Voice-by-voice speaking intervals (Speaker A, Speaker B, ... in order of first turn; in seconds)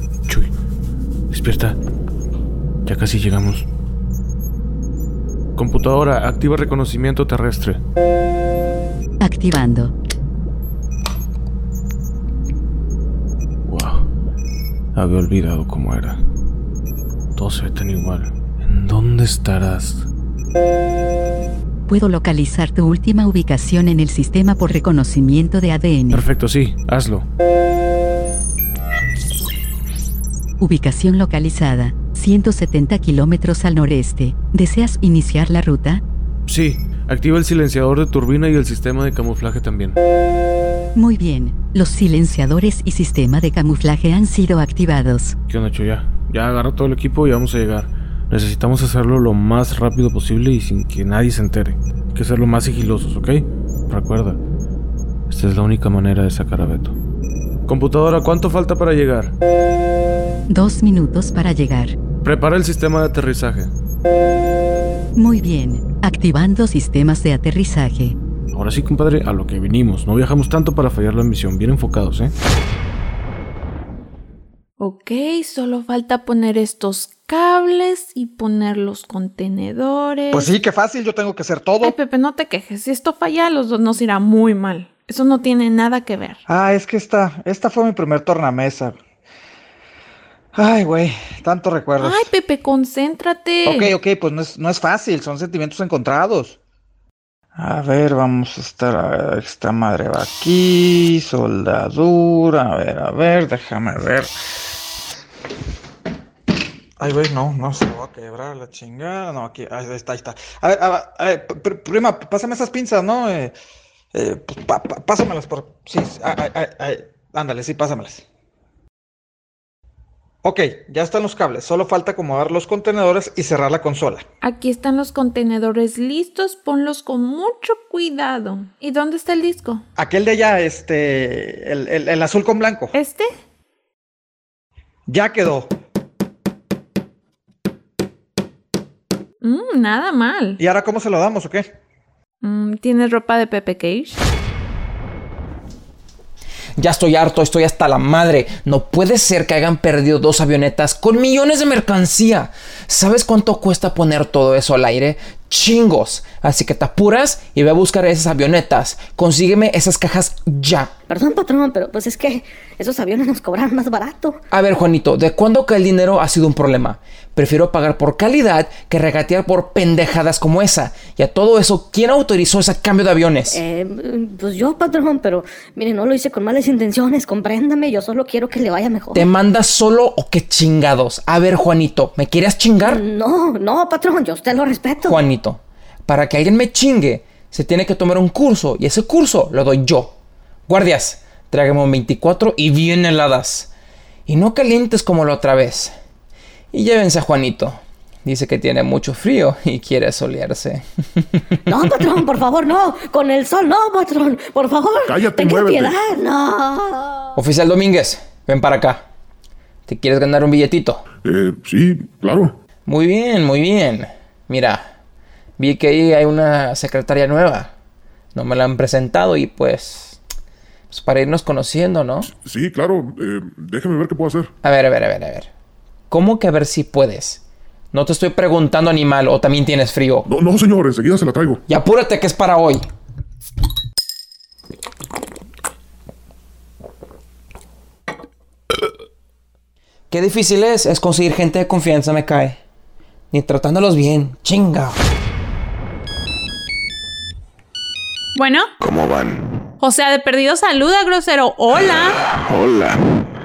Speaker A: 1.3-1.8, 2.8-3.6, 5.5-7.8, 13.7-14.1, 14.9-16.2, 17.4-20.1, 26.1-27.2, 36.5-40.0, 45.5-54.4, 55.3-57.0, 57.7-59.3, 62.2-63.7, 68.5-72.3
Speaker B: 9.2-9.9, 21.9-26.2, 30.6-36.0, 41.0-45.3, 60.5-61.9, 65.2-68.2
Speaker C: 74.8-80.5, 81.8-86.4, 92.0-93.9, 124.4-129.8, 132.9-133.3, 139.4-140.6, 142.4-144.2, 248.3-248.7, 249.8-252.1
Speaker D: 80.3-82.0, 86.5-89.0, 90.5-92.3, 93.6-96.6, 97.5-104.3, 107.0-113.5, 114.1-118.2, 120.4-124.2, 129.9-132.9, 135.1-135.7, 140.6-141.7
Speaker E: 146.8-160.9, 164.5-173.6, 179.1-183.0, 185.0-190.2, 190.7-193.7, 194.3-195.9, 196.7-201.6, 207.3-209.0, 209.9-211.0, 212.8-214.8, 215.6-217.7, 218.3-220.2, 220.9-222.3, 224.6-225.5, 226.1-230.3, 231.7-232.8, 240.1-242.6, 243.3-245.0
Speaker F: 161.1-164.4, 173.5-179.2, 182.8-185.2, 201.7-207.3
Speaker G: 205.0-206.0, 211.2-212.6, 222.3-224.5, 230.2-231.6
Speaker H: 248.8-249.6, 251.7-253.2